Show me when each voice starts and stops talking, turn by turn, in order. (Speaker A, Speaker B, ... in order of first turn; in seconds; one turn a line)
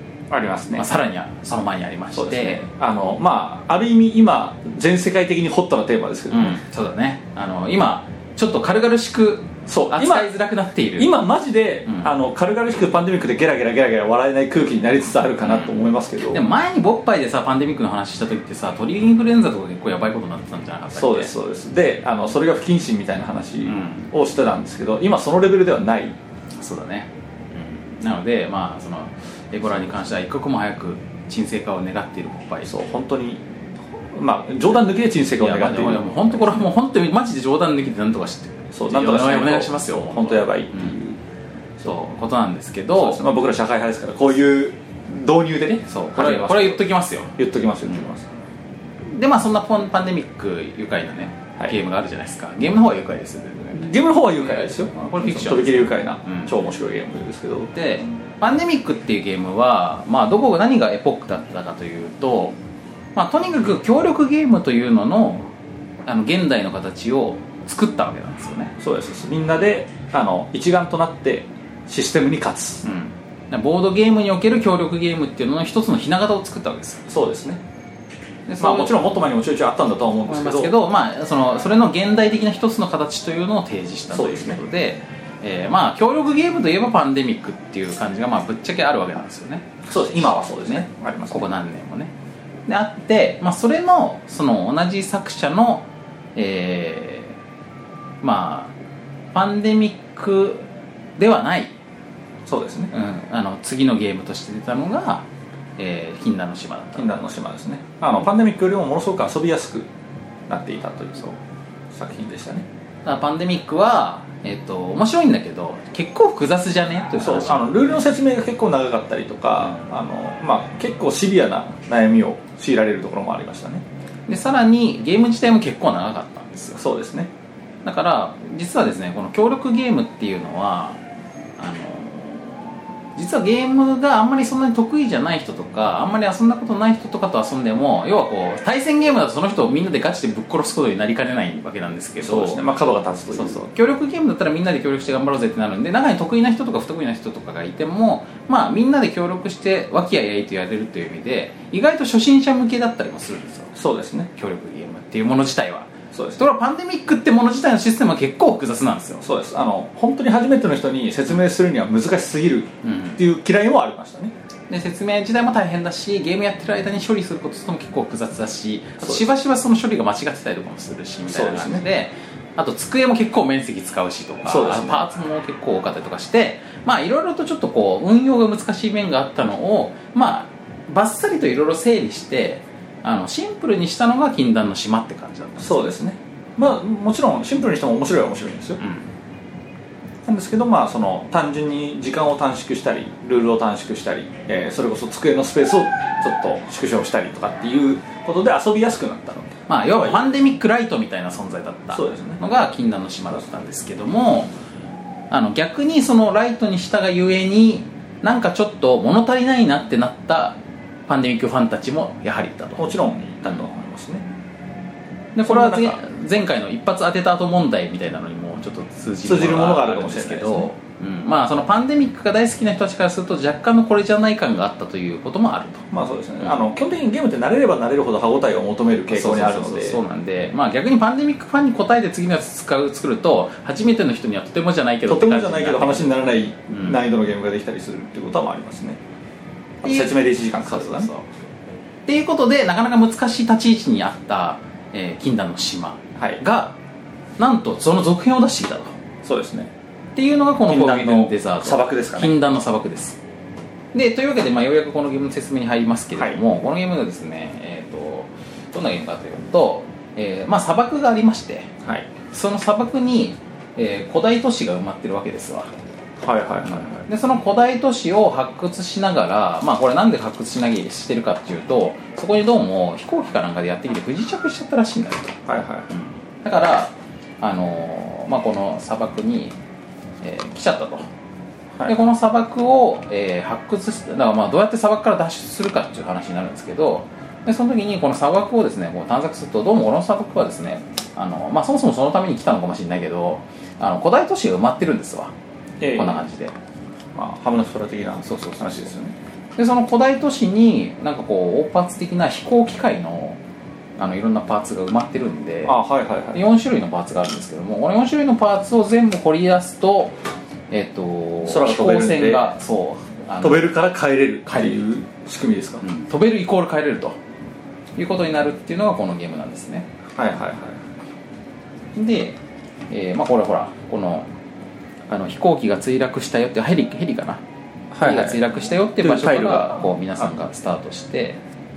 Speaker A: 0.3-0.9
Speaker B: 0.7-2.6
Speaker A: 2.1-6.6
Speaker B: 6.3-11.2
Speaker A: 9.7-10.3
Speaker A: 11.0-16.4
Speaker B: 15.4-21.3
Speaker A: 20.9-26.2
Speaker B: 23.7-24.1
Speaker B: 26.6-32.7
Speaker A: 32.7-33.5
Speaker A: 34.1-36.7
Speaker B: 35.4-41.0
Speaker A: 38.7-41.2
Speaker B: 41.8-43.2
Speaker A: 43.0-46.9
Speaker B: 45.7-47.3
Speaker A: 47.4-48.3
Speaker B: 49.1-56.5
Speaker A: 53.7-57.7
Speaker B: 57.7-62.6
Speaker B: 63.1-65.5
Speaker B: 66.1-68.7
Speaker A: 68.8-72.8
Speaker B: 72.8-77.1
Speaker A: 77.1-77.6
Speaker B: 78.5-79.0
Speaker A: 78.6-80.7
Speaker B: 80.3-92.1
Speaker A: 84.1-84.6
Speaker A: 89.9-91.5
Speaker B: 92.7-97.4
Speaker B: 98.2-98.8
Speaker B: 99.3-100.7
Speaker B: 101.2-101.8
Speaker A: 102.5-102.9
Speaker B: 102.9-105.3
Speaker B: 105.8-107.3
Speaker A: 107.0-109.9
Speaker A: 110.5-111.4
Speaker A: 111.9-112.7
Speaker B: 113.0-117.7
Speaker A: 117.2-123.8
Speaker B: 124.3-126.8
Speaker A: 126.8-127.3
Speaker B: 127.8-131.0
Speaker B: 131.6-142.6
Speaker A: 142.2-143.6
Speaker B: 143.3-153.7
Speaker A: 153.8-154.3
Speaker B: 154.3-159.2
Speaker A: 156.1-156.4
Speaker A: 159.2-164.3
Speaker B: 162.8-163.2
Speaker B: 164.7-186.0
Speaker A: 169.0-169.3
Speaker A: 171.3-171.9
Speaker A: 174.5-175.1
Speaker A: 185.6-188.8
Speaker B: 188.8-189.1
Speaker A: 190.3-200.3
Speaker B: 199.7-204.5
Speaker A: 201.9-202.4
Speaker B: 205.3-212.9
Speaker A: 212.8-214.3
Speaker B: 215.3-225.9
Speaker A: 215.4-216.0
Speaker A: 219.2-220.7
Speaker A: 225.9-230.0
Speaker B: 229.1-236.2
Speaker A: 235.1-239.0
Speaker A: 239.8-241.1
Speaker B: 239.8-241.3
Speaker B: 242.1-246.8
Speaker B: 247.4-249.0
Speaker A: 249.2-249.7
Speaker B: 250.2-253.2
Speaker A: 250.7-252.3
Speaker B: 253.9-261.7
Speaker A: 256.2-256.4
Speaker A: 261.8-262.1
Speaker B: 262.3-265.7
Speaker A: 266.2-267.1
Speaker B: 266.6-275.4
Speaker A: 275.5-275.9
Speaker B: 275.9-279.6
Speaker B: 280.2-281.1
Speaker B: 281.9-295.3
Speaker A: 295.8-296.2
Speaker B: 295.9-296.6
Speaker A: 297.1-299.1
Speaker B: 298.2-298.9
Speaker B: 299.6-303.4
Speaker B: 304.0-305.8
Speaker A: 305.7-306.4
Speaker B: 306.3-310.2
Speaker B: 310.7-313.7
Speaker A: 311.4-312.5
Speaker A: 313.4-315.8
Speaker B: 314.5-314.7
Speaker B: 315.8-317.2
Speaker B: 318.0-319.9
Speaker A: 320.1-320.8
Speaker B: 322.0-322.4
Speaker B: 322.9-324.3
Speaker B: 325.1-327.4
Speaker A: 327.9-330.3
Speaker B: 328.0-331.4